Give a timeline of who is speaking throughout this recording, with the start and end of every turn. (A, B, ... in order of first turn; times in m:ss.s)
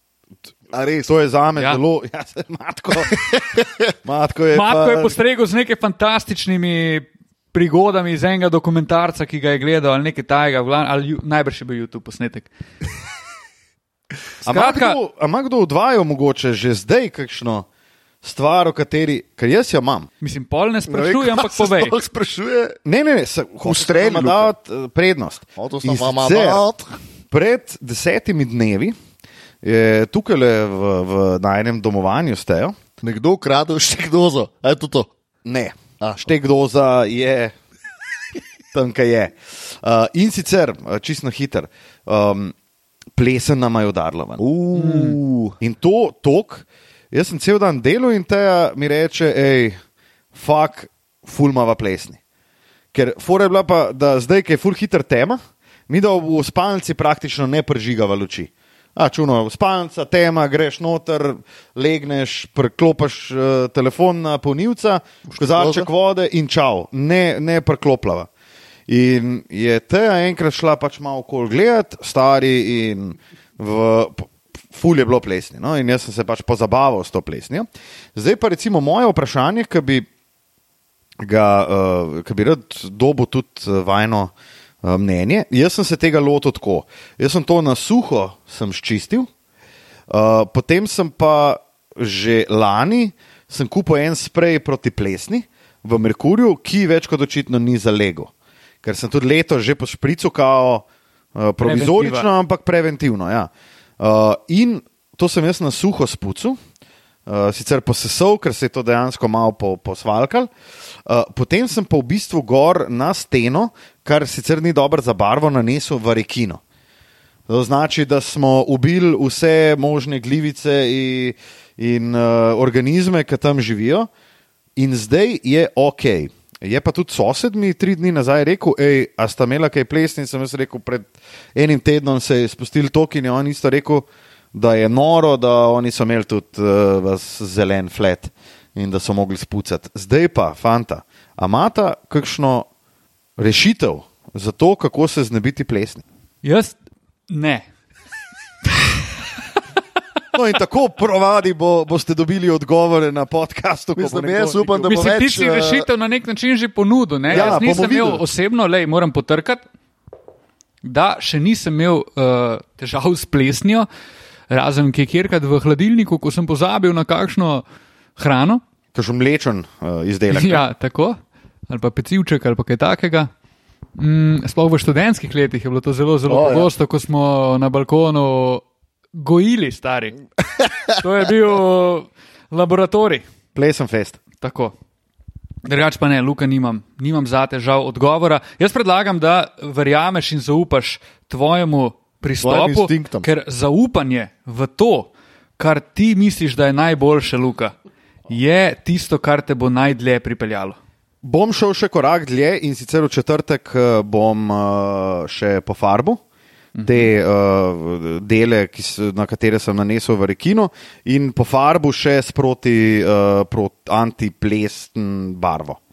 0:00.7-0:01.0 A
0:01.0-0:03.4 B
0:03.6-0:03.8 A
0:04.0-0:05.1 B
0:04.5-0:12.5 C
0:14.4-0:17.7 B
0:14.5-0:15.0 C
0:18.2-0:20.1 B
0:20.2-0:22.0 C
0:20.9-0:22.8 A
0:22.9-0:26.6 B
0:23.6-0:24.5 A
0:25.6-0:26.9 A
0:27.3-0:29.0 B
0:29.6-0:32.8 B
0:33.0-0:35.1 A
0:35.4-0:37.5 B
0:36.0-0:36.3 A
0:38.7-0:42.5 B
0:43.2-0:44.4 B
0:44.4-0:45.6 A
0:44.8-0:45.2 C
0:45.6-0:49.8 B
0:50.3-0:52.2 B
0:52.9-1:08.3 B
1:05.3-1:05.9 A
1:08.9-1:20.0 B
1:21.2-1:24.3 B
1:24.8-1:29.3 B
1:30.1-1:38.3 B
1:38.8-1:40.8 B
1:41.4-1:43.5 B
1:41.6-1:42.3 C
1:44.0-1:46.6 B
1:47.3-1:50.5 B
1:51.1-1:56.6 B
1:57.5-2:04.1 B
2:04.8-2:22.7 B
2:23.4-2:26.0 B
2:26.4-2:26.8 C
2:27.3-2:27.7 C
2:30.3-2:35.1 B
2:34.0-2:35.9 A
2:34.9-2:39.6 C
2:37.3-2:37.7 A
2:37.3-2:38.2 B
2:40.8-2:43.9 C
2:44.5-2:47.6 C
2:48.2-2:48.6 C
2:49.0-2:50.6 B
2:50.3-2:51.2 C
2:51.7-2:53.3 C
2:54.0-3:00.2 C
2:56.3-2:56.7 A
3:00.9-3:03.3 C
3:03.6-3:04.2 B
3:04.4-3:04.8 C
3:05.7-3:17.7 C
3:12.4-3:13.3 A
3:18.3-3:20.8 C
3:21.2-3:26.2 B
3:26.8-3:27.1 C
3:26.8-3:35.8 B